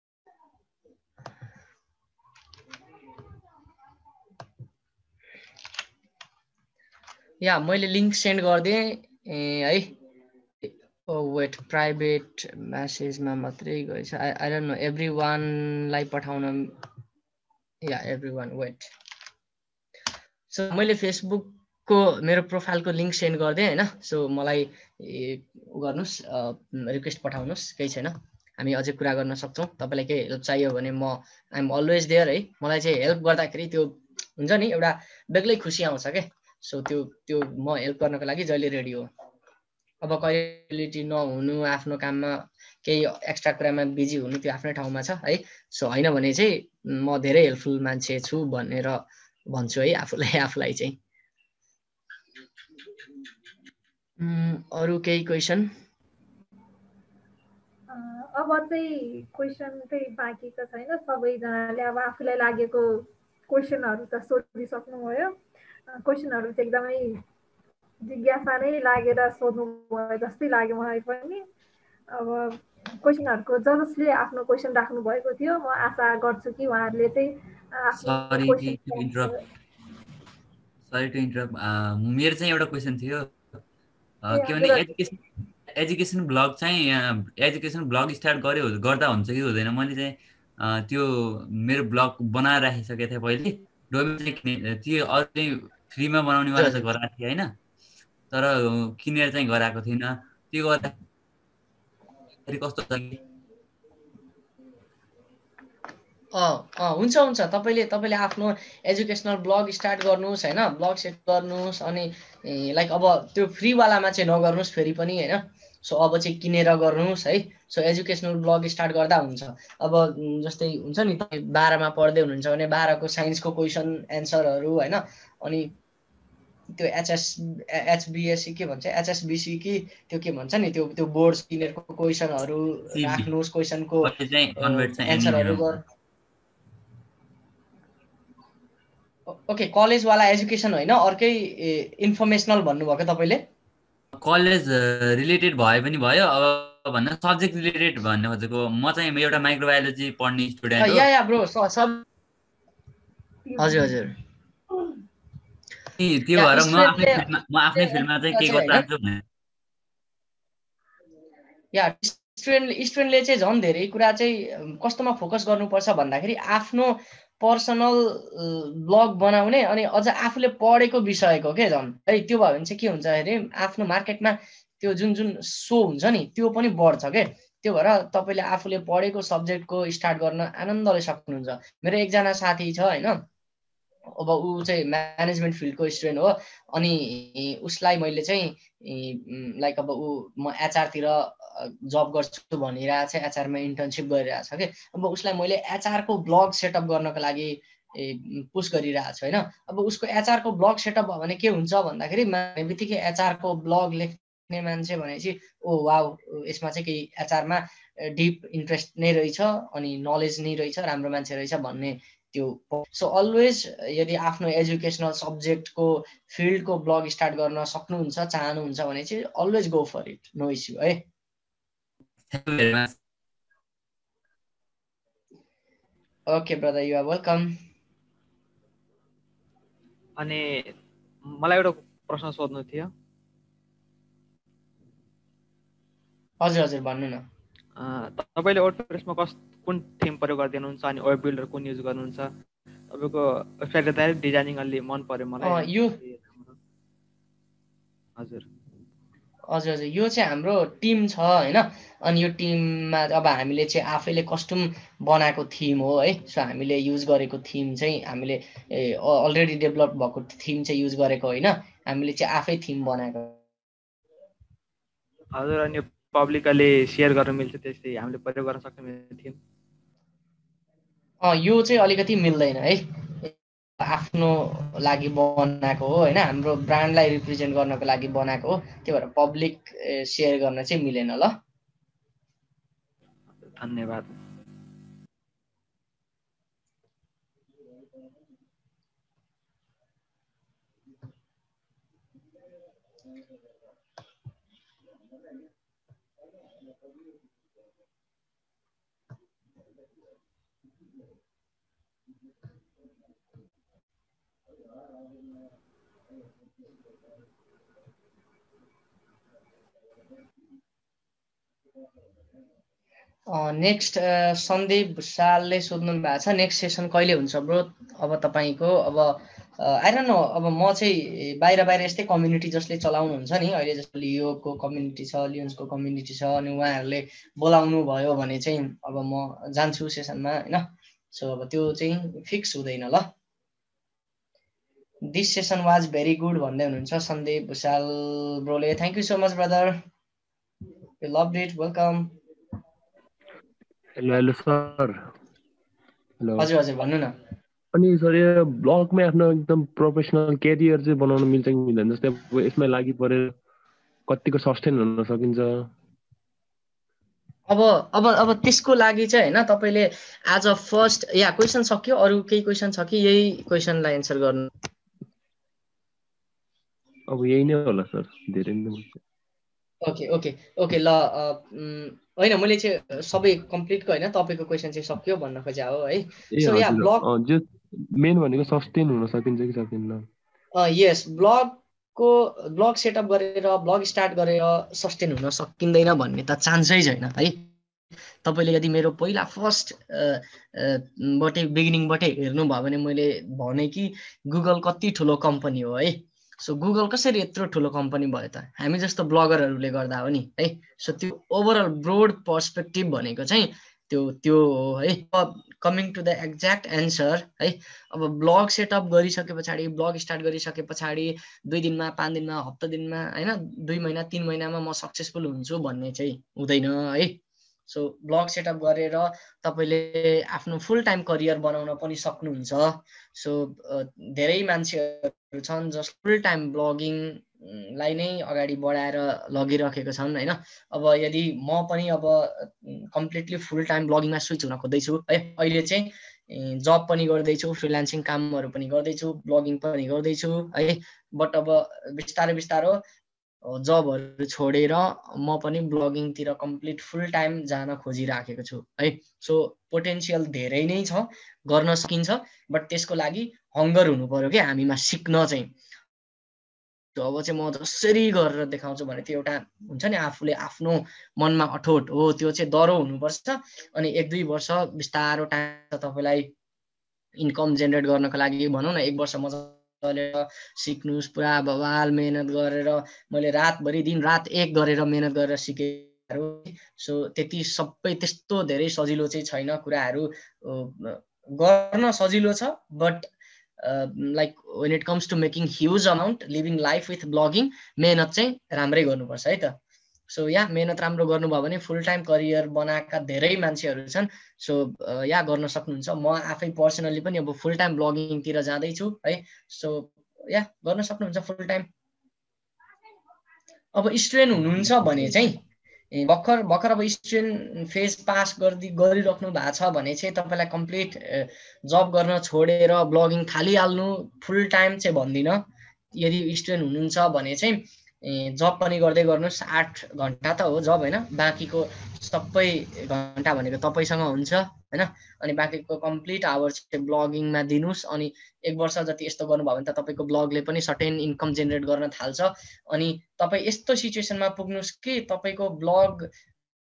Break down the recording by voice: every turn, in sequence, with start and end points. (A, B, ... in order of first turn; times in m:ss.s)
0:07.4-0:09.9 A
0:10.6-0:16.7 A
0:17.8-0:18.9 A
0:20.5-0:39.1 A
0:40.0-0:49.0 A
0:49.5-0:51.0 A
0:54.2-0:55.7 A
0:57.9-1:05.4 B
1:05.9-1:07.2 B
1:08.0-1:11.4 B
1:12.1-1:19.4 B
1:17.9-1:19.3 C
1:20.9-1:23.3 C
1:24.2-1:25.2 C
1:24.3-1:24.9 B
1:25.7-1:37.6 C
1:36.6-1:36.9 A
1:38.3-1:41.0 C
1:42.5-1:43.2 C
1:46.3-2:05.7 A
2:06.8-2:15.8 A
2:12.9-2:13.3 C
2:14.0-2:15.8 C
2:19.3-2:23.4 A
2:24.1-2:31.1 C
2:30.8-2:32.0 A
2:33.5-2:34.0 B
2:33.6-2:34.2 A
2:36.0-2:39.2 C
2:36.3-2:38.9 A
2:41.7-3:03.2 A
3:04.2-3:41.0 A
3:42.3-3:43.0 C
3:46.3-3:47.6 A
3:50.2-3:50.7 D
3:51.4-3:52.9 D
3:56.4-3:57.3 A
3:57.8-4:02.3 D
4:02.9-4:06.6 D
4:05.4-4:06.0 A
4:08.2-4:08.4 D
4:09.5-4:23.4 A
4:25.4-4:29.4 D
4:31.2-4:41.4 A
4:43.4-4:44.2 D
5:13.3-5:33.1 A
5:35.1-5:39.8 A
5:41.0-5:42.1 A
5:44.0-5:45.0 E
5:46.2-5:46.5 E
5:46.4-5:47.1 A
5:47.7-5:53.4 E
5:54.1-5:55.7 E
5:57.5-6:04.5 A
6:07.1-6:09.0 E
6:09.8-6:17.0 A
6:16.3-6:20.1 E
6:20.6-6:27.5 A
6:28.2-7:22.8 A
7:23.4-7:35.5 A
7:37.0-7:46.3 A
7:47.2-8:03.1 A
8:03.6-8:09.6 A
8:10.1-8:21.7 A
8:23.8-8:25.4 A
8:25.9-8:35.4 A
8:36.0-8:56.1 A